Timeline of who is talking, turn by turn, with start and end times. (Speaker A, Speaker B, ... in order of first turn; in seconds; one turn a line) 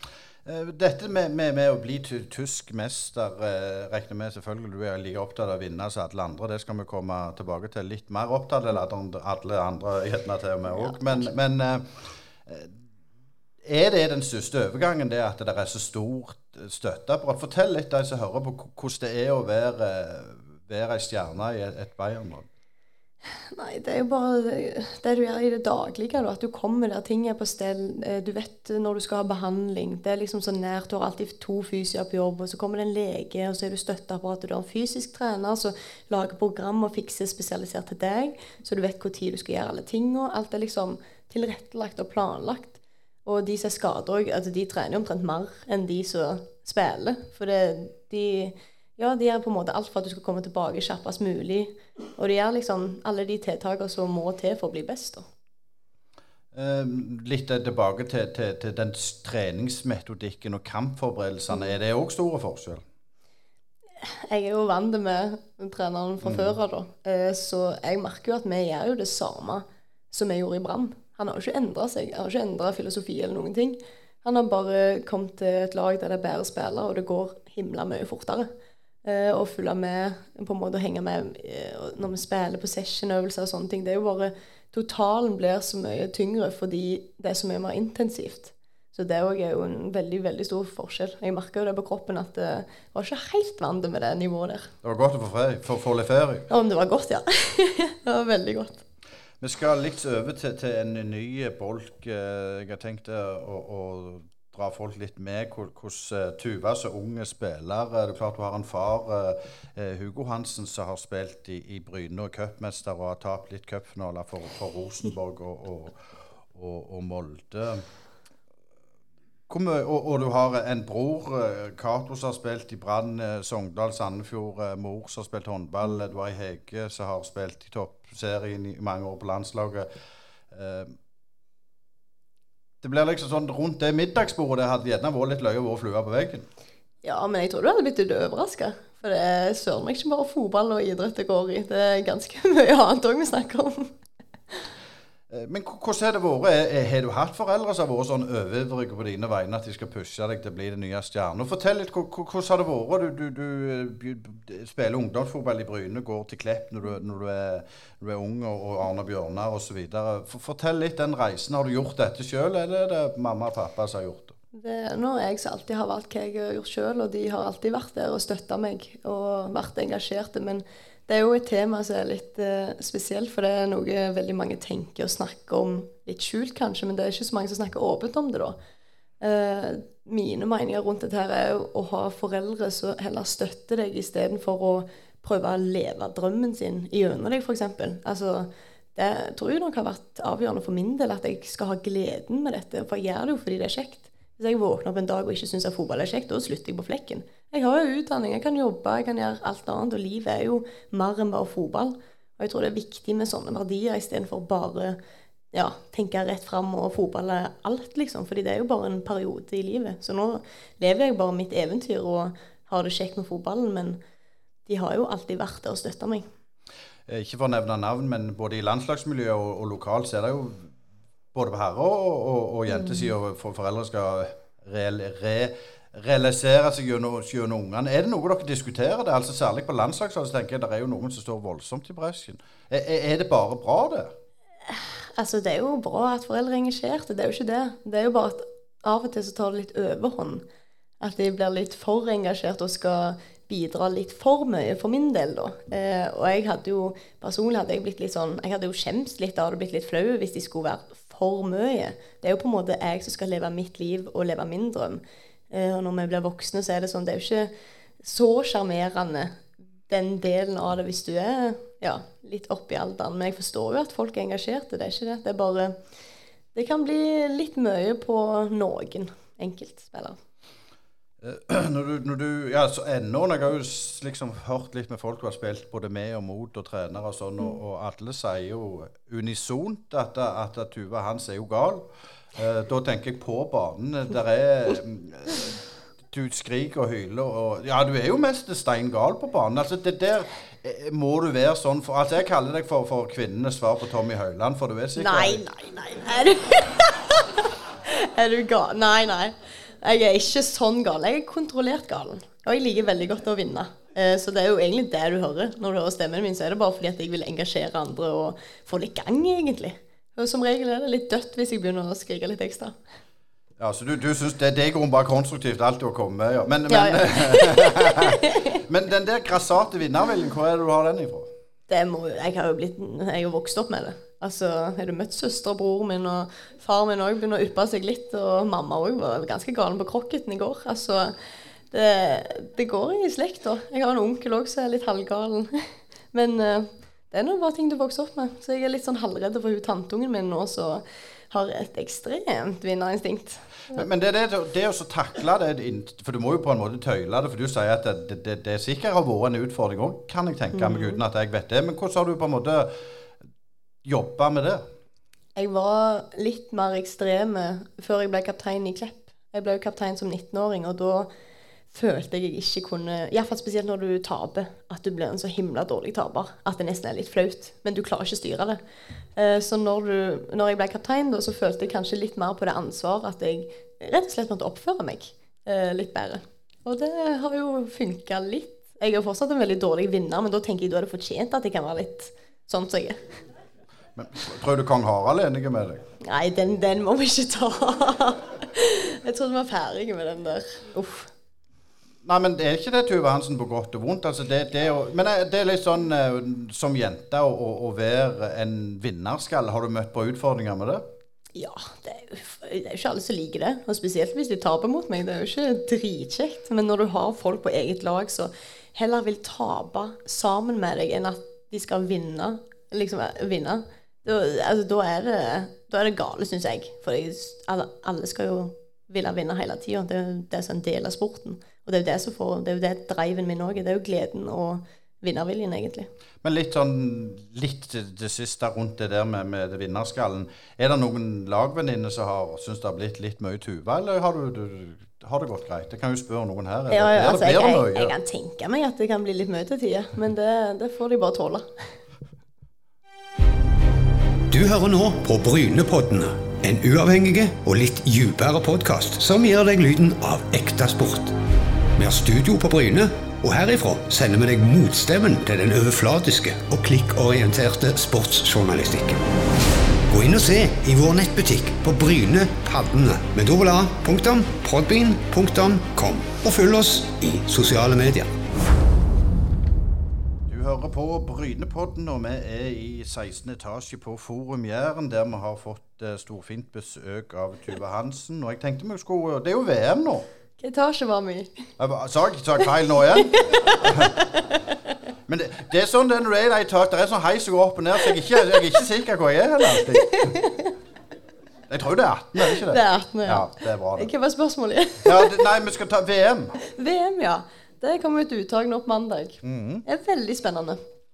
Speaker A: 0.5-12.8
Speaker B: 10.8-11.2
Speaker A: 13.6-22.5
Speaker B: 23.3-55.2
Speaker A: 56.5-62.8
Speaker B: 64.0-78.5
Speaker A: 66.2-66.5
Speaker B: 79.0-94.7
Speaker A: 94.8-96.5
Speaker B: 96.5-98.8
Speaker A: 99.4-116.0
Speaker A: 116.5-117.8
Speaker A: 119.5-129.9
Speaker A: 130.5-130.9
Speaker A: 132.8-136.5
Speaker B: 137.0-143.9
Speaker A: 145.3-164.3
Speaker B: 164.5-178.6
Speaker B: 179.2-205.0
Speaker B: 205.5-214.0
Speaker B: 214.7-216.3
Speaker A: 217.1-220.7
Speaker A: 221.3-234.1
Speaker B: 222.7-223.1
Speaker B: 234.7-240.4
Speaker B: 241.0-257.5
Speaker B: 258.0-265.8
Speaker B: 266.5-270.2
Speaker A: 271.2-285.5
Speaker A: 286.1-295.4
Speaker B: 295.0-312.7
Speaker A: 313.6-321.3
Speaker B: 316.7-318.4
Speaker B: 321.7-331.1
Speaker B: 331.7-343.8
Speaker A: 343.7-352.8
Speaker B: 350.5-351.0
Speaker A: 353.8-354.6
Speaker B: 355.4-361.1
Speaker B: 361.7-368.6
Speaker B: 369.1-383.2
Speaker A: 383.9-385.8
Speaker B: 386.0-391.1
Speaker A: 392.0-400.8
Speaker B: 401.3-425.9
Speaker A: 426.2-437.9
Speaker B: 436.7-441.6
Speaker C: 444.3-451.1
Speaker C: 451.8-459.0
Speaker C: 459.9-468.1
Speaker A: 470.3-480.1
Speaker B: 480.4-481.3
Speaker A: 481.6-484.0
Speaker B: 483.1-484.2
Speaker A: 485.1-490.1
Speaker B: 489.6-490.5
Speaker A: 491.5-493.9
Speaker B: 492.3-495.2
Speaker A: 494.8-496.4
Speaker B: 496.4-500.6
Speaker A: 499.2-499.6